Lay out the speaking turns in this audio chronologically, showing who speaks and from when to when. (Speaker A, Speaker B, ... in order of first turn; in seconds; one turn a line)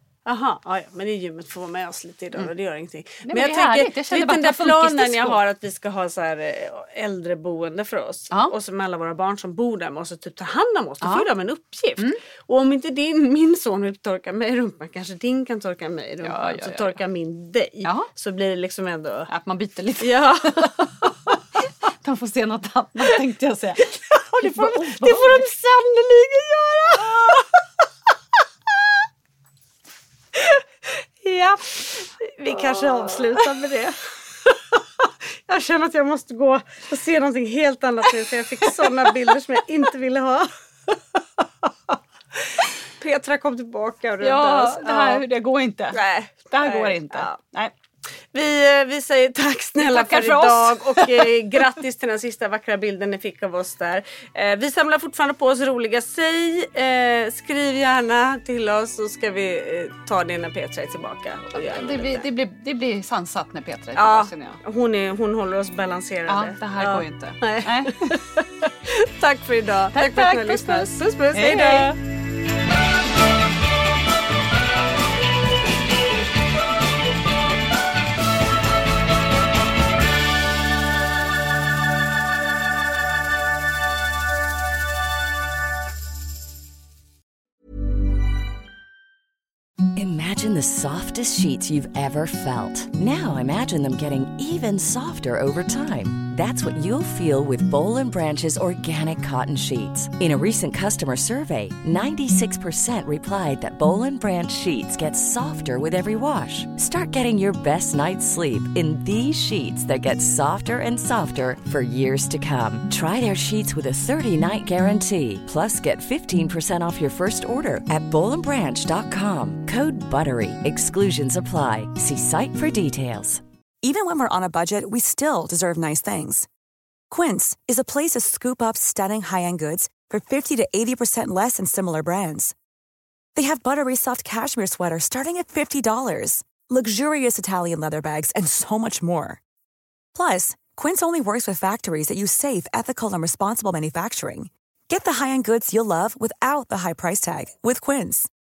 Speaker A: 0.2-19.3
Speaker B: 3.2-5.4
Speaker B: 11.0-11.3
Speaker B: 16.2-17.0
Speaker B: 17.8-18.1
Speaker B: 19.3-25.5
Speaker A: 20.0-21.1
Speaker A: 23.8-27.5
Speaker A: 30.3-40.5
Speaker B: 38.6-39.1
Speaker A: 43.0-45.2
Speaker B: 44.2-47.7
Speaker A: 45.9-47.4
Speaker A: 48.3-62.2
Speaker B: 49.8-51.4
Speaker B: 61.5-64.6
Speaker A: 63.9-72.0
Speaker B: 66.3-68.2
Speaker B: 69.9-71.9
Speaker C: 90.0-123.4
Speaker D: 123.8-126.5
Speaker D: 127.1-132.5
Speaker D: 133.3-139.4
Speaker D: 140.1-148.3